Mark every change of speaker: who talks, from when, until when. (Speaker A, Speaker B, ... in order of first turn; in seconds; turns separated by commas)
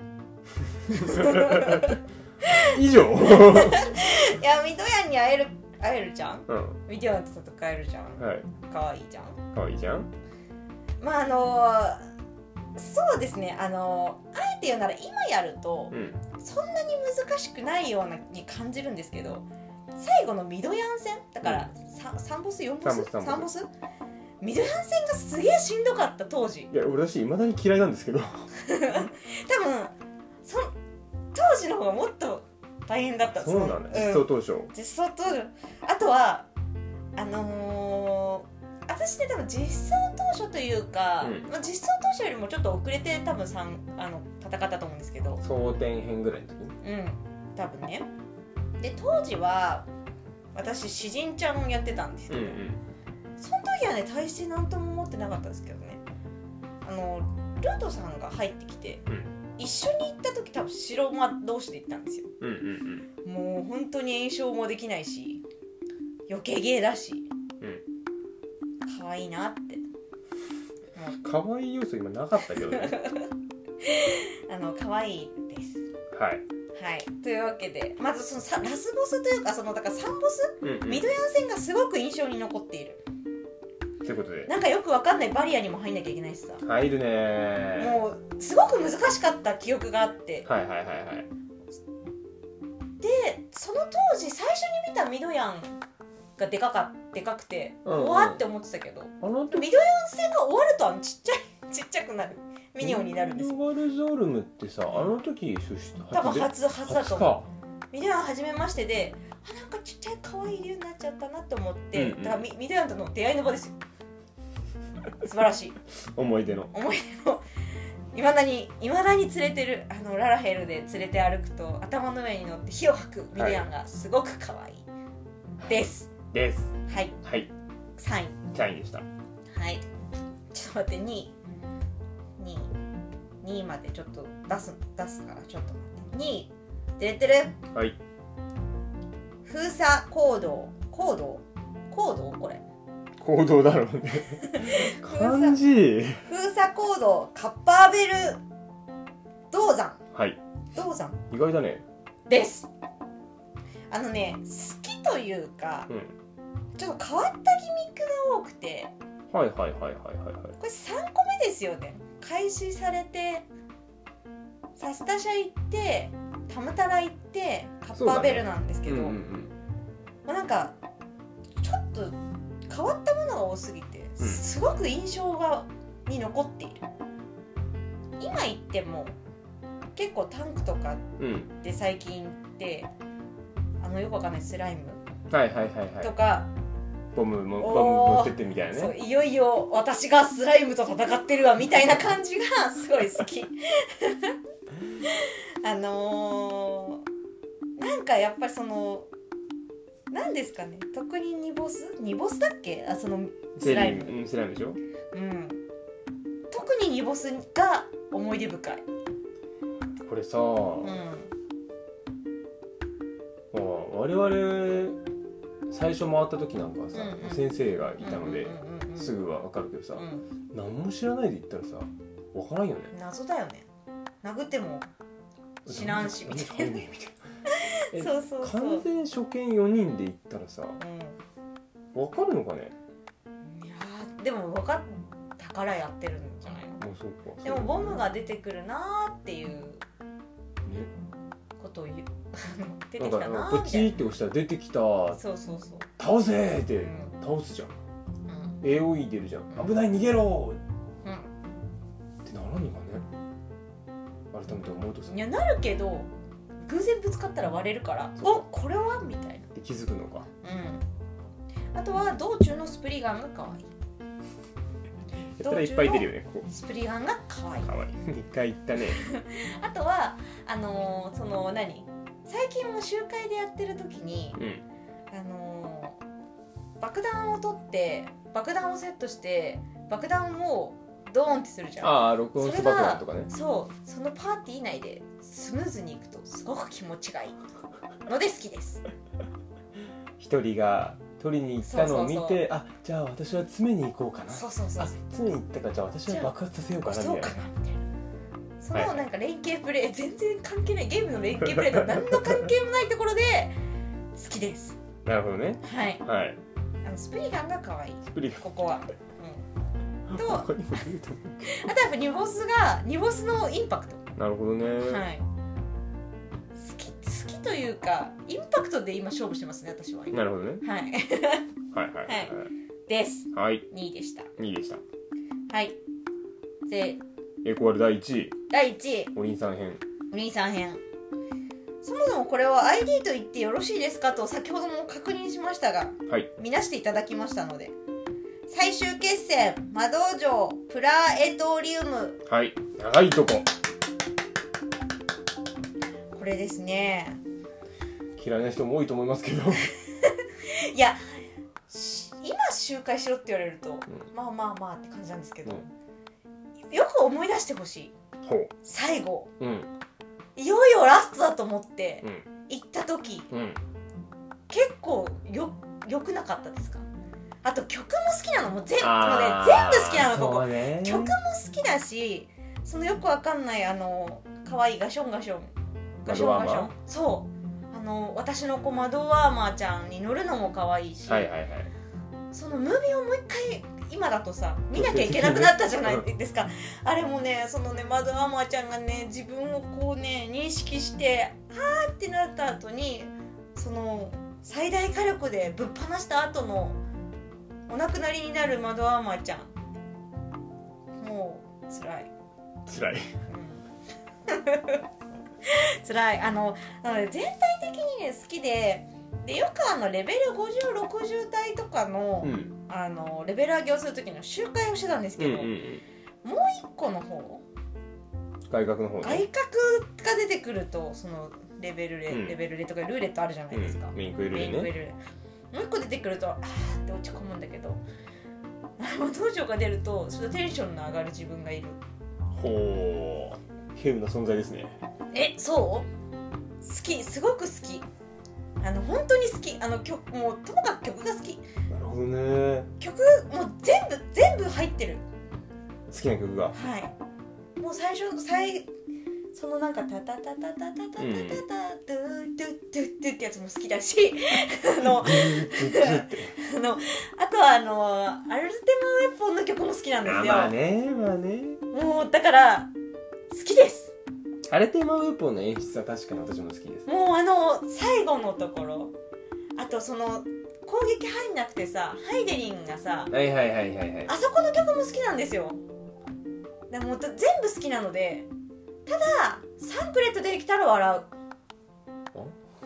Speaker A: 0.9-9.4, Speaker B: 0.9-2.0, Speaker B: 2.6-4.0, Speaker B: 6.5-6.8, Speaker B: 8.2-8.5, Speaker B: 9.5-10.1, Speaker A: 11.0-12.1, Speaker A: 12.7-23.7, Speaker B: 15.9-16.2, Speaker B: 21.4-21.7, Speaker B: 22.8-23.5, Speaker A: 24.4-26.7, Speaker B: 26.7-28.5, Speaker A: 28.5-30.7, Speaker A: 31.3-36.5, Speaker B: 33.2-34.7, Speaker A: 37.1-45.4, Speaker B: 41.2-41.5, Speaker B: 45.4-46.8, Speaker A: 46.8-48.1, Speaker A: 48.8-49.9, Speaker A: 50.5-52.6, Speaker B: 52.3-52.8, Speaker A: 53.4-56.0, Speaker A: 56.8-59.0, Speaker A: 59.6-62.3, Speaker B: 62.4-63.1, Speaker A: 63.2-65.4, Speaker A: 66.3-67.3, Speaker A: 68.8-69.8, Speaker A: 70.9-71.2, Speaker B: 71.2-73.0, Speaker A: 72.5-73.3, Speaker A: 73.8-75.8, Speaker B: 76.1-76.4, Speaker A: 76.7-83.0, Speaker B: 80.6-81.1, Speaker B: 84.0-84.5, Speaker A: 84.5-86.6, Speaker B: 86.6-88.0, Speaker A: 87.8-90.5, Speaker B: 90.5-91.3, Speaker A: 93.0-95.8, Speaker A: 96.4-103.6, Speaker B: 97.8-98.4, Speaker B: 99.2-99.7, Speaker B: 102.8-107.5, Speaker A: 106.1-107.3, Speaker A: 107.9-113.8, Speaker B: 111.9-112.5, Speaker A: 115.2-115.8, Speaker B: 116.0-116.7, Speaker A: 116.7-117.4, Speaker A: 118.1-124.8, Speaker B: 123.3-123.7, Speaker A: 125.7-126.1, Speaker B: 126.3-127.5, Speaker A: 126.9-127.2, Speaker A: 128.0-128.4, Speaker B: 128.5-129.1, Speaker A: 129.5-129.8, Speaker A: 130.5-131.3, Speaker A: 132.4-132.7, Speaker A: 133.4-137.6, Speaker A: 139.4-142.6, Speaker B: 143.2-146.2, Speaker A: 144.4-145.6, Speaker A: 146.2-148.4, Speaker A: 149.5-150.0, Speaker B: 150.1-150.4, Speaker A: 150.7-151.2, Speaker B: 151.3-151.8, Speaker A: 152.3-152.7, Speaker A: 153.9-155.9, Speaker B: 155.9-156.1, Speaker A: 156.8-158.9, Speaker B: 159.3-160.6, Speaker A: 160.6-163.4, Speaker A: 164.8-169.2, Speaker B: 167.9-169.5, Speaker A: 170.2-170.8, Speaker A: 171.6-172.2, Speaker A: 172.7-176.8, Speaker A: 178.2-179.1, Speaker A: 179.9-182.9, Speaker B: 181.2-181.5, Speaker A: 183.8-185.0, Speaker B: 185.3-186.1, Speaker A: 186.0-186.5, Speaker B: 187.1-188.9, Speaker A: 187.6-194.3, Speaker A: 195.0-197.0, Speaker A: 197.8-199.1, Speaker A: 200.1-204.2, Speaker B: 203.6-204.8, Speaker A: 205.1-205.6, Speaker A: 206.5-208.8, Speaker B: 210.0-211.0, Speaker A: 210.8-211.3, Speaker B: 213.5-215.0, Speaker B: 215.7-222.9, Speaker A: 216.9-219.2, Speaker A: 219.9-220.3, Speaker A: 222.9-223.7, Speaker A: 224.2-224.9, Speaker A: 225.7-226.8, Speaker B: 225.7-227.2, Speaker A: 227.5-228.8, Speaker B: 227.9-230.8, Speaker A: 230.8-231.2, Speaker B: 231.9-232.7, Speaker A: 233.4-236.8, Speaker B: 236.8-238.0, Speaker A: 237.4-239.8, Speaker B: 240.6-240.9, Speaker A: 241.6-243.9, Speaker B: 243.0-245.2, Speaker A: 245.1-245.9, Speaker B: 246.0-247.7, Speaker A: 246.8-247.1, Speaker A: 248.3-248.6, Speaker B: 248.6-250.6, Speaker A: 251.0-251.3, Speaker B: 252.2-253.1, Speaker B: 254.3-255.1, Speaker A: 255.1-256.1, Speaker A: 256.6-259.5, Speaker B: 259.5-260.3, Speaker A: 260.4-260.8, Speaker A: 261.7-263.7, Speaker B: 265.4-266.5, Speaker A: 265.4-267.7, Speaker B: 267.6-269.0, Speaker A: 268.9-274.4, Speaker B: 274.4-274.6, Speaker A: 275.1-276.0, Speaker A: 276.8-287.4, Speaker B: 281.8-283.3, Speaker A: 288.1-288.8, Speaker B: 290.2-297.4, Speaker A: 291.6-292.4, Speaker A: 294.3-295.0, Speaker A: 296.8-297.8, Speaker A: 298.6-303.5, Speaker B: 298.7-299.0, Speaker B: 301.5-302.3, Speaker A: 304.1-304.8, Speaker B: 305.0-306.4, Speaker A: 305.6-306.0, Speaker A: 306.8-309.4, Speaker B: 308.1-308.4, Speaker B: 310.1-311.6, Speaker A: 310.2-310.8, Speaker A: 311.4-314.0, Speaker B: 314.1-315.1, Speaker A: 314.8-315.2, Speaker A: 316.5-321.4, Speaker B: 320.1-320.6, Speaker B: 321.7-322.5, Speaker A: 322.0-322.4, Speaker A: 322.9-324.3, Speaker B: 323.3-323.6, Speaker B: 324.4-324.8, Speaker A: 325.5-325.8, Speaker A: 326.7-327.0, Speaker B: 327.4-328.4, Speaker A: 328.5-329.1, Speaker B: 329.1-329.8, Speaker A: 330.1-330.8, Speaker A: 331.8-337.7, Speaker A: 338.5-342.2, Speaker B: 342.2-343.5, Speaker A: 346.1-347.2, Speaker B: 348.1-349.7, Speaker A: 350.0-355.7, Speaker A: 356.7-357.9, Speaker B: 358.2-358.5, Speaker A: 358.6-359.3, Speaker B: 359.4-359.7, Speaker A: 360.4-363.3, Speaker B: 363.3-363.6, Speaker A: 364.5-366.9, Speaker A: 367.4-381.3, Speaker B: 368.8-371.2, Speaker B: 376.1-376.7, Speaker B: 381.1-381.7, Speaker A: 382.3-396.8, Speaker B: 384.7-386.1, Speaker A: 397.7-399.5, Speaker A: 401.0-402.1, Speaker B: 402.6-403.1, Speaker A: 403.3-403.6, Speaker A: 404.3-404.8, Speaker A: 405.4-415.6, Speaker B: 412.2-412.5, Speaker B: 415.2-415.8, Speaker A: 416.2-417.4, Speaker B: 418.5-419.2, Speaker A: 419.0-425.0, Speaker B: 422.1-422.4, Speaker B: 423.5-424.7, Speaker A: 425.5-427.8, Speaker A: 428.8-431.8, Speaker B: 432.3-434.8, Speaker A: 435.1-435.9, Speaker A: 436.6-437.9, Speaker A: 438.6-441.4, Speaker B: 441.7-442.7, Speaker A: 442.8-445.0, Speaker B: 445.9-446.5, Speaker A: 446.5-446.9, Speaker A: 447.6-448.7, Speaker A: 449.3-460.5, Speaker B: 451.0-451.4, Speaker B: 454.8-456.4, Speaker B: 460.0-461.6, Speaker A: 461.7-462.7, Speaker A: 463.3-463.9, Speaker B: 464.5-466.9, Speaker A: 466.9-468.9, Speaker A: 469.6-473.1, Speaker B: 473.1-474.1, Speaker A: 474.1-475.6, Speaker A: 476.7-478.3, Speaker A: 478.9-481.1